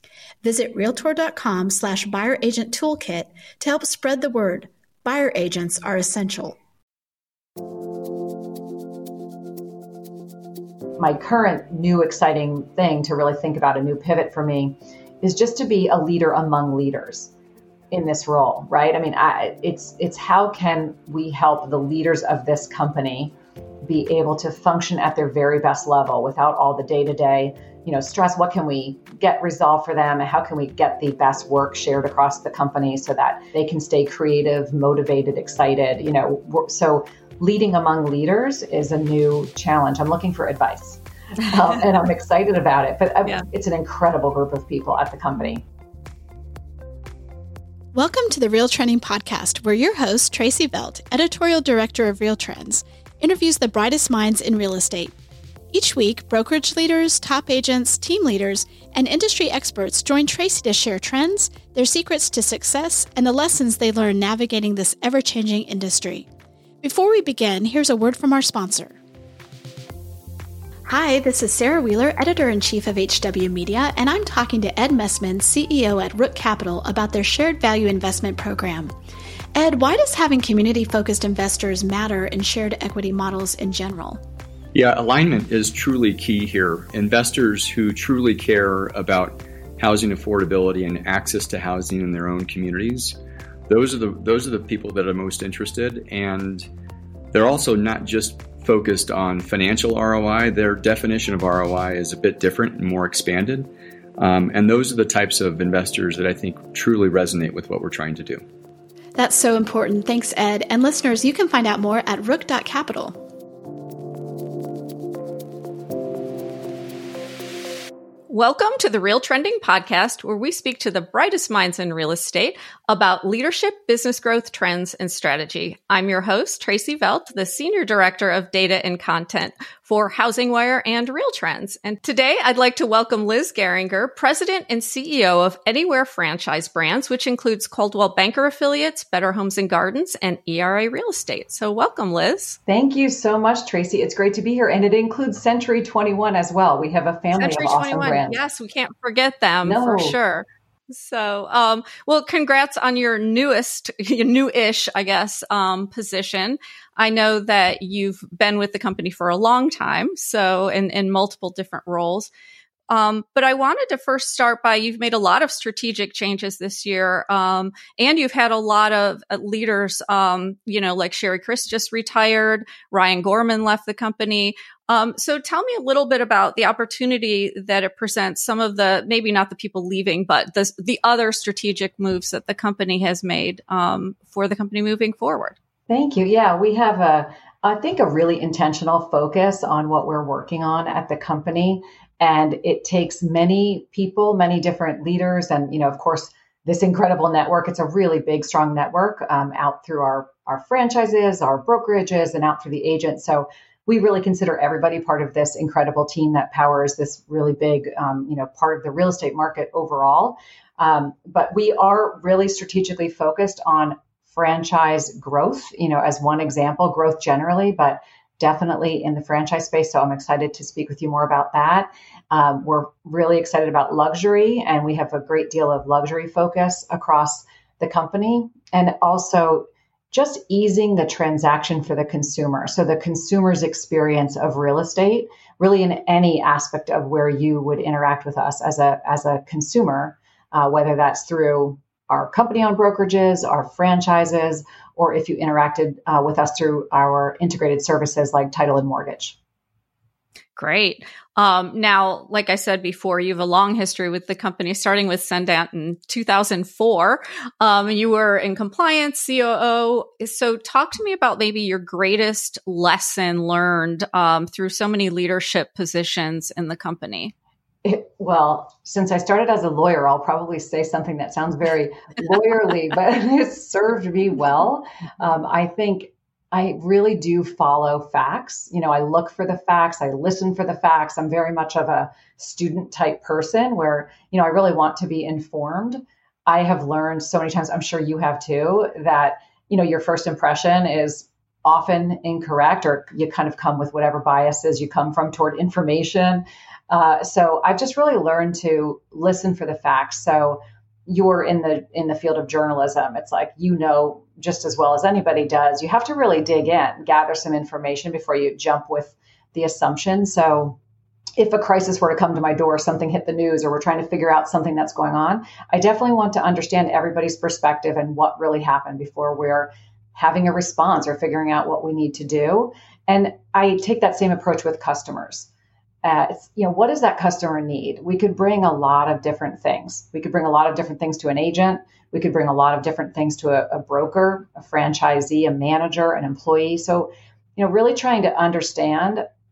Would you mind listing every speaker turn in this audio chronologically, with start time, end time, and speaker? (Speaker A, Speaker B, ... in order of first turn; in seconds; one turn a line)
Speaker A: 0.4-6.6
Speaker B: 11.0-17.3
Speaker B: 17.9-45.6
Speaker A: 47.9-55.1
Speaker A: 55.7-66.3
Speaker A: 66.8-69.0
Speaker A: 70.8-78.9
Speaker A: 79.5-84.2
Speaker C: 84.7-96.7
Speaker C: 97.3-108.4
Speaker A: 109.2-113.2
Speaker D: 118.3-142.6
Speaker B: 142.7-148.4
Speaker D: 147.3-162.3
Speaker B: 149.6-150.2
Speaker D: 162.9-185.6
Speaker B: 185.9-249.3
Speaker D: 250.6-267.3
Speaker B: 267.8-310.8
Speaker B: 311.4-325.5
Speaker B: 326.0-339.2